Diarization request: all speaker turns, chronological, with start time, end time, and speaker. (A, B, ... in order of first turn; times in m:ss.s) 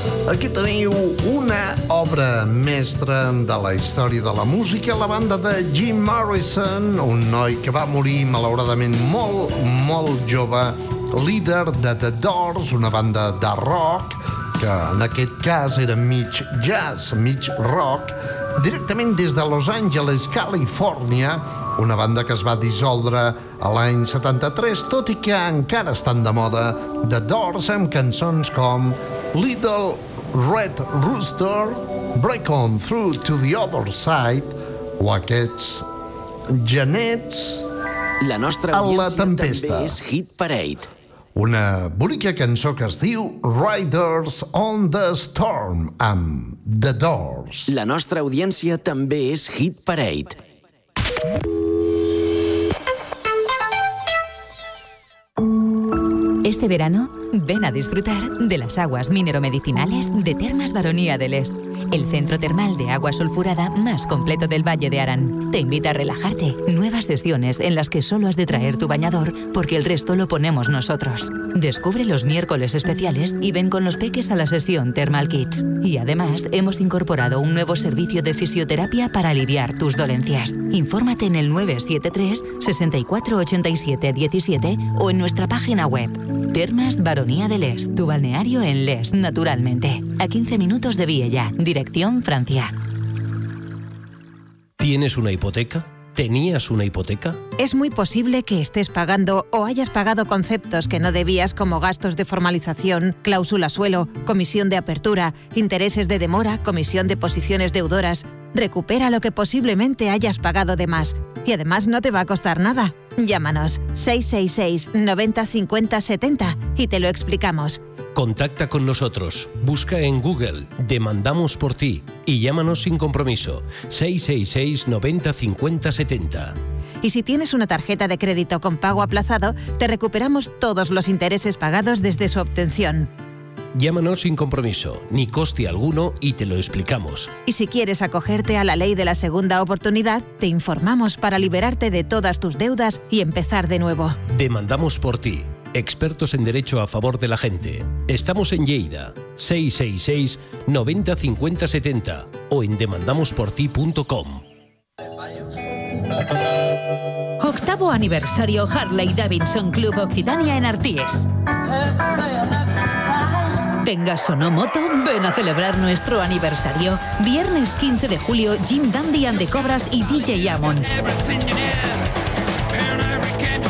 0:00.3-0:35.8 A
0:36.5-0:37.6 A
0:38.2-0:40.9 B
0:38.7-0:40.0 A
0:41.4-0:47.7 A
0:47.7-0:50.4 B
0:56.4-1:32.7 C
1:34.8-1:37.4 D
1:37.6-1:57.8 E
1:58.1-2:06.6 D
2:07.0-2:13.1 E
2:13.7-2:17.3 D
2:17.4-2:24.2 E
2:24.3-2:34.4 D
2:37.4-2:41.3 F
2:43.7-2:50.9 F